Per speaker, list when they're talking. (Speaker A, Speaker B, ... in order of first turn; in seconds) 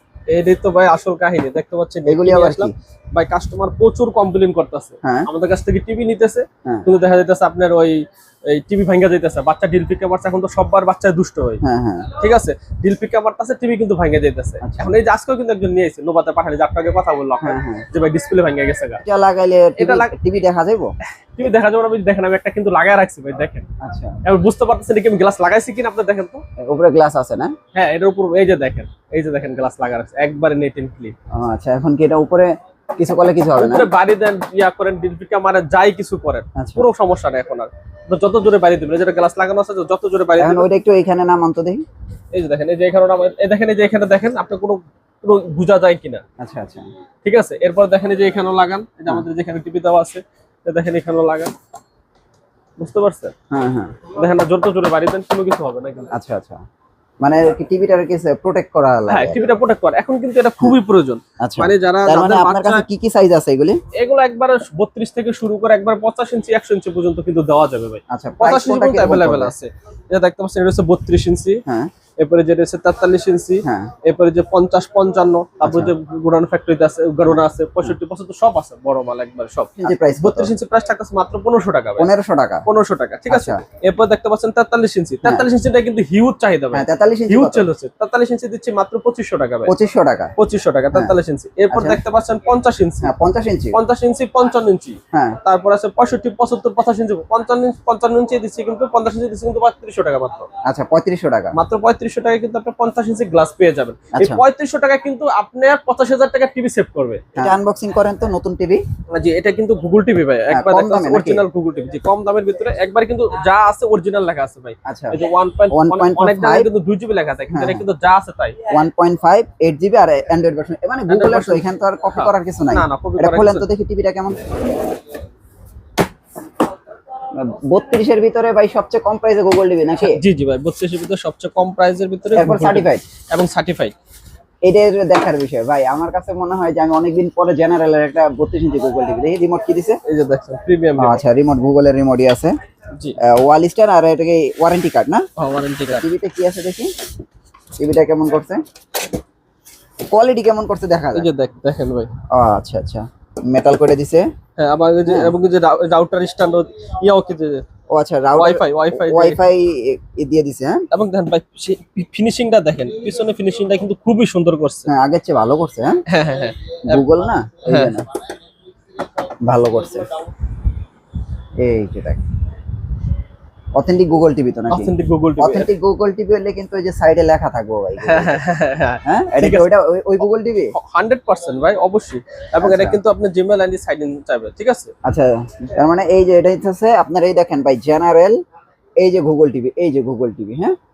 Speaker A: 0.3-11.6, 12.2-19.0, 19.8-20.1, 21.3-23.6, 24.2-26.4, 27.7-31.1, 33.5-40.7, 42.3-46.2, 47.2-51.5, 52.8-53.3, 54.1-56.1, 59.1-62.8, 63.9-71.6, 72.2-82.1, 82.7-89.7, 90.4-93.1, 93.7-100.5, 101.5-107.5, 109.1-118.6, 121.1-123.7, 130.0-133.9, 140.1-141.2, 145.4-146.1, 151.1-152.1, 154.6-157.6, 158.4-159.4, 160.9-164.9, 166.1-167.1, 167.7-168.0, 174.7-175.7, 178.0-179.7, 180.7-184.9
Speaker B: 2.0-2.7, 5.0-5.3, 11.6-12.1, 14.6-14.9, 17.4-17.9, 19.0-20.9, 23.8-24.2, 26.6-27.5, 31.3-33.9, 36.5-36.9, 40.4-41.8, 46.4-46.9, 53.5-54.0, 56.1-56.6, 57.2-59.4, 61.4-63.8, 68.1-69.5, 71.7-71.9, 73.6-73.9, 75.6-75.9, 77.3-77.9, 79.8-80.5, 82.0-82.6, 83.3-83.6, 86.7-87.7, 89.7-90.3, 91.7-92.0, 93.0-93.8, 95.1-95.4, 100.7-101.5, 104.2-104.4, 107.3-108.8, 110.5-111.4, 114.8-115.2, 115.7-116.7, 117.5-117.8, 118.7-124.4, 127.3-130.2, 132.3-133.0, 134.7-140.0, 141.0-142.5, 143.2-145.2, 145.9-146.9, 147.8-148.6, 150.1-151.3, 152.3-154.3, 155.1-155.3, 157.9-160.9, 164.9-166.0, 166.8-168.1, 169.4-170.1, 171.6-172.2, 173.7-178.4, 179.1-180.7, 182.6-183.0, 185.0-188.4, 189.0-190.8